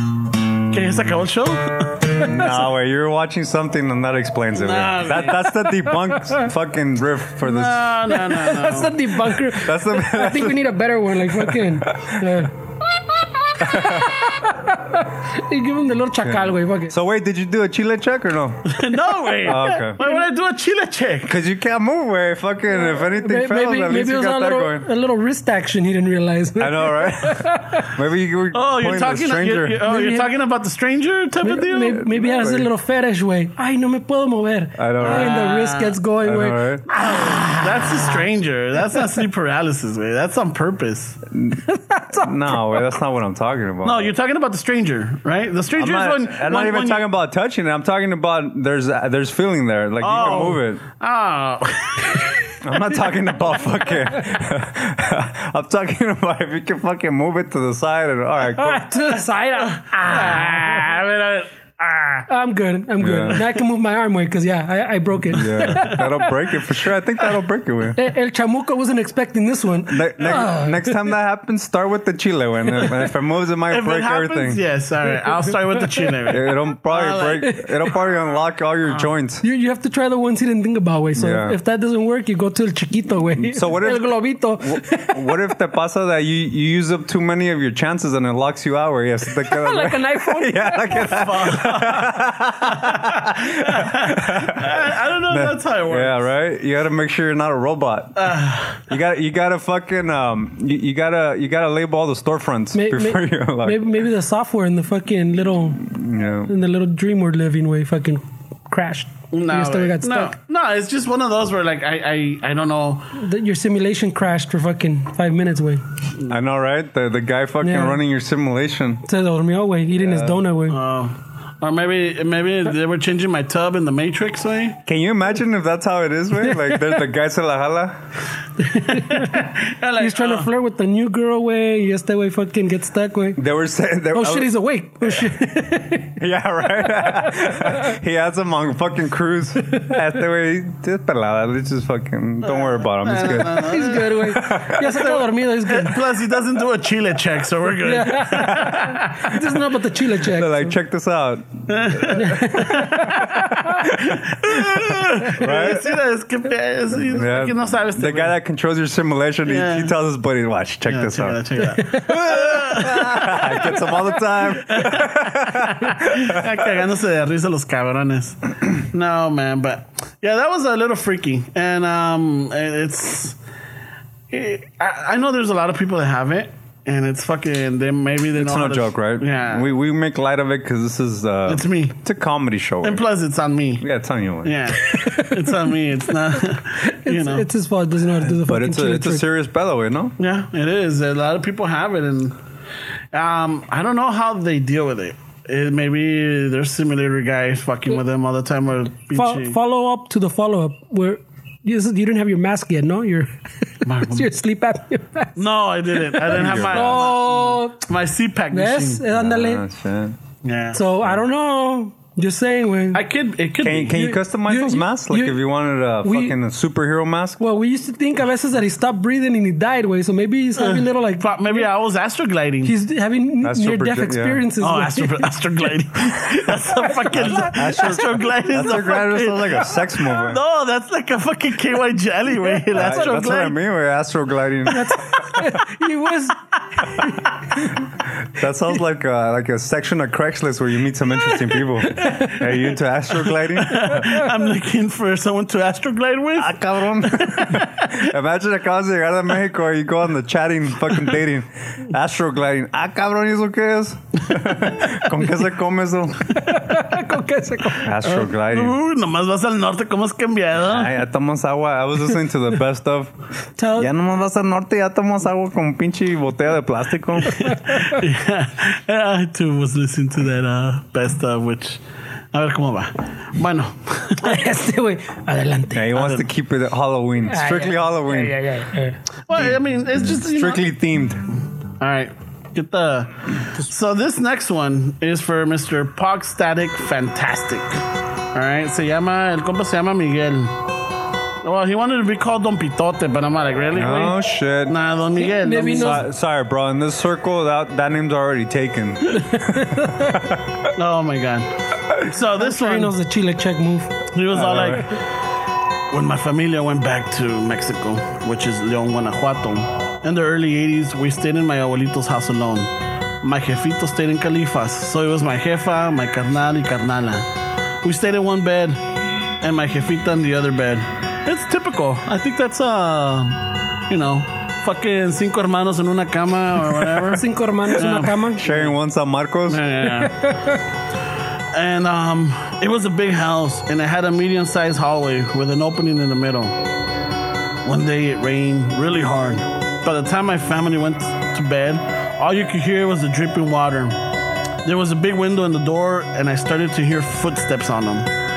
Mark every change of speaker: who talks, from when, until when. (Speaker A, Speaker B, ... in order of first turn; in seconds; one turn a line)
Speaker A: 0.7-2.3
Speaker B: 2.2-8.0
Speaker A: 4.5-5.5
Speaker C: 5.9-6.4
Speaker A: 7.4-9.1
Speaker C: 8.1-12.5
Speaker B: 9.5-10.6
Speaker B: 11.3-12.3
Speaker C: 13.2-16.9
Speaker B: 13.6-14.2
Speaker B: 16.2-18.8
Speaker A: 18.7-21.3
Speaker B: 19.4-20.0
Speaker B: 21.3-24.9
Speaker C: 22.8-27.9
Speaker B: 26.6-29.8
Speaker A: 28.5-32.0
Speaker C: 29.8-30.3
Speaker C: 31.4-38.1
Speaker B: 31.9-32.7
Speaker B: 34.8-35.4
Speaker A: 35.0-36.0
Speaker B: 36.2-36.9
Speaker A: 37.0-41.2
Speaker B: 41.3-44.1
Speaker C: 41.6-42.9
Speaker A: 43.8-47.1
Speaker B: 45.7-50.8
Speaker A: 50.0-52.3
Speaker B: 52.6-58.9
Speaker C: 58.5-61.0
Speaker A: 59.9-62.3
Speaker C: 62.3-66.5
Speaker B: 63.0-63.4
Speaker B: 65.3-68.0
Speaker C: 68.0-71.1
Speaker B: 69.9-74.6
Speaker A: 73.7-77.4
Speaker B: 76.3-79.4
Speaker C: 77.4-77.9
Speaker C: 79.4-85.4
Speaker B: 81.2-81.6
Speaker B: 83.4-104.0
Speaker C: 89.4-91.3
Speaker A: 91.1-96.3
Speaker A: 98.2-98.9
Speaker C: 102.7-105.9
Speaker B: 105.8-106.5
Speaker C: 106.5-110.3
Speaker A: 109.3-113.1
Speaker C: 113.1-115.8
Speaker B: 116.3-119.0
Speaker C: 117.6-118.0
Speaker C: 119.1-120.8
Speaker B: 120.0-120.4
Speaker A: 120.7-124.8
Speaker B: 124.8-128.0
Speaker C: 126.4-126.9
Speaker C: 128.6-133.4
Speaker A: 128.7-130.5
Speaker B: 133.4-134.5
Speaker C: 134.1-136.2
Speaker B: 135.0-135.3
Speaker B: 136.2-144.9
Speaker C: 137.0-137.8
Speaker A: 142.4-144.2
Speaker C: 143.3-146.1
Speaker A: 144.8-149.1
Speaker C: 147.8-150.7
Speaker B: 148.5-148.8
Speaker B: 150.2-152.2
Speaker A: 151.7-158.3
Speaker C: 152.1-153.9
Speaker B: 153.9-155.9
Speaker B: 157.1-166.7
Speaker A: 159.4-159.9
Speaker A: 160.9-163.7
Speaker C: 161.7-162.1
Speaker A: 164.7-173.4
Speaker A: 174.3-179.7
Speaker B: 178.3-183.0
Speaker A: 181.5-181.9
Speaker A: 182.8-183.9
Speaker B: 183.8-184.7
Speaker A: 184.4-187.5
Speaker C: 184.8-185.6
Speaker C: 186.5-189.2
Speaker B: 188.3-190.2
Speaker A: 190.2-192.4
Speaker A: 193.1-199.6
Speaker C: 199.1-203.3
Speaker C: 203.8-205.4
Speaker A: 203.8-204.3
Speaker A: 205.3-209.0
Speaker C: 205.9-207.8
Speaker B: 206.3-207.1
Speaker C: 208.5-209.6
Speaker B: 209.1-210.2
Speaker A: 210.4-210.8
Speaker C: 210.7-213.0
Speaker A: 212.9-214.0
Speaker B: 213.6-217.4
Speaker C: 213.9-215.4
Speaker C: 216.0-216.3
Speaker C: 217.4-221.7
Speaker A: 220.6-222.7
Speaker C: 222.6-225.6
Speaker B: 223.4-224.4
Speaker A: 224.6-233.6
Speaker C: 226.5-228.2
Speaker B: 227.1-230.4
Speaker C: 232.6-233.2
Speaker B: 232.7-235.4
Speaker C: 234.7-237.7
Speaker B: 238.2-244.1
Speaker C: 241.9-242.4
Speaker A: 243.6-247.9
Speaker B: 246.3-256.5
Speaker C: 256.3-258.0
Speaker B: 257.8-258.8
Speaker A: 258.0-260.9
Speaker B: 260.6-263.1
Speaker C: 263.6-263.9
Speaker B: 263.8-267.6
Speaker A: 267.4-271.8
Speaker A: 272.3-274.3
Speaker C: 274.2-275.9
Speaker B: 275.7-278.4
Speaker A: 275.9-276.3
Speaker C: 277.3-279.0
Speaker A: 279.3-280.7
Speaker B: 279.4-281.2
Speaker A: 281.8-287.8
Speaker A: 288.3-290.6
Speaker A: 291.4-296.0
Speaker B: 293.7-294.8
Speaker C: 295.2-296.0
Speaker B: 295.7-300.4
Speaker A: 300.7-302.9
Speaker C: 302.4-304.0
Speaker A: 304.1-305.0
Speaker B: 304.3-304.8
Speaker A: 305.9-312.7
Speaker A: 313.2-317.3
Speaker A: 317.8-318.8
Speaker A: 319.4-328.7
Speaker C: 326.9-328.4
Speaker B: 328.4-329.7
Speaker A: 329.5-330.3
Speaker C: 330.0-330.6
Speaker A: 331.5-336.6
Speaker A: 337.6-344.0
Speaker A: 344.6-348.1